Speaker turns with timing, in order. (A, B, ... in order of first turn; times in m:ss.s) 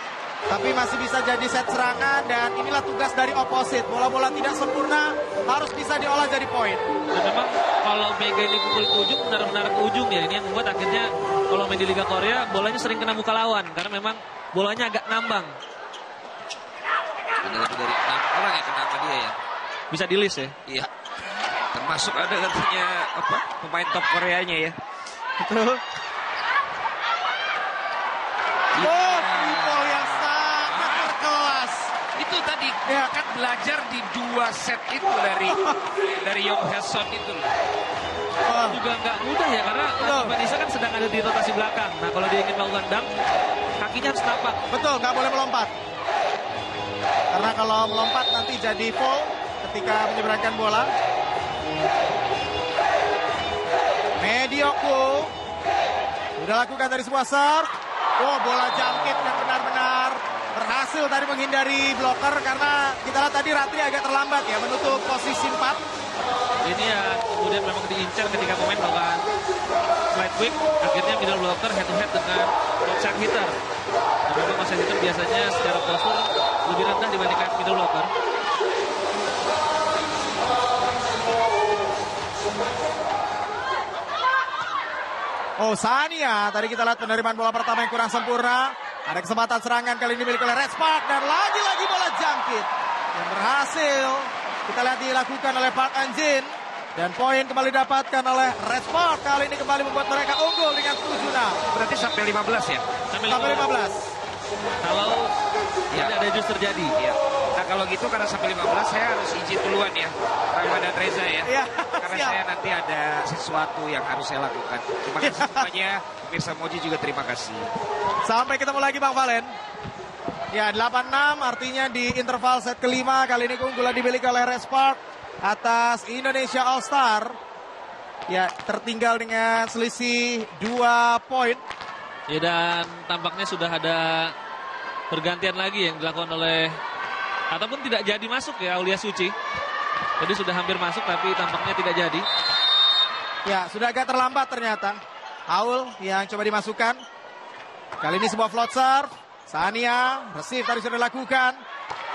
0:00.5-0:06.8 A
0:07.1-0:15.6 B
0:17.4-0:19.4 C
0:19.9-0:20.5 B
0:21.7-0:24.7 C
0:25.4-0:25.8 A
0:28.7-0:31.1 C
0:28.8-0:31.9 A
0:32.2-0:37.5 C
0:35.5-0:35.8 A
0:38.5-0:38.8 A
0:38.6-0:43.1 B
0:40.0-0:40.3 A
0:43.8-0:44.6 B
0:44.7-0:45.7 A
0:47.3-0:50.9 A
0:54.2-0:55.3 A
0:56.4-1:05.8 A
1:06.6-1:09.2 B
1:10.1-1:13.6 B
1:14.3-1:18.1 B
1:25.6-1:41.6 A
1:41.7-1:42.8 C
1:43.1-1:43.7 B
1:43.3-1:44.1 A
1:44.8-1:45.3 B
1:45.9-1:46.9 B
1:47.0-1:57.7 C
1:51.4-1:52.4 A
1:55.2-1:55.7 A
1:58.2-1:59.5 A
2:00.5-2:07.4 A
2:08.3-2:11.6 A
2:12.3-2:14.3 B
2:15.1-2:16.8 B
2:17.5-2:19.3 B
2:20.2-2:22.2 B
2:23.4-2:27.0 A
2:28.0-2:31.6 A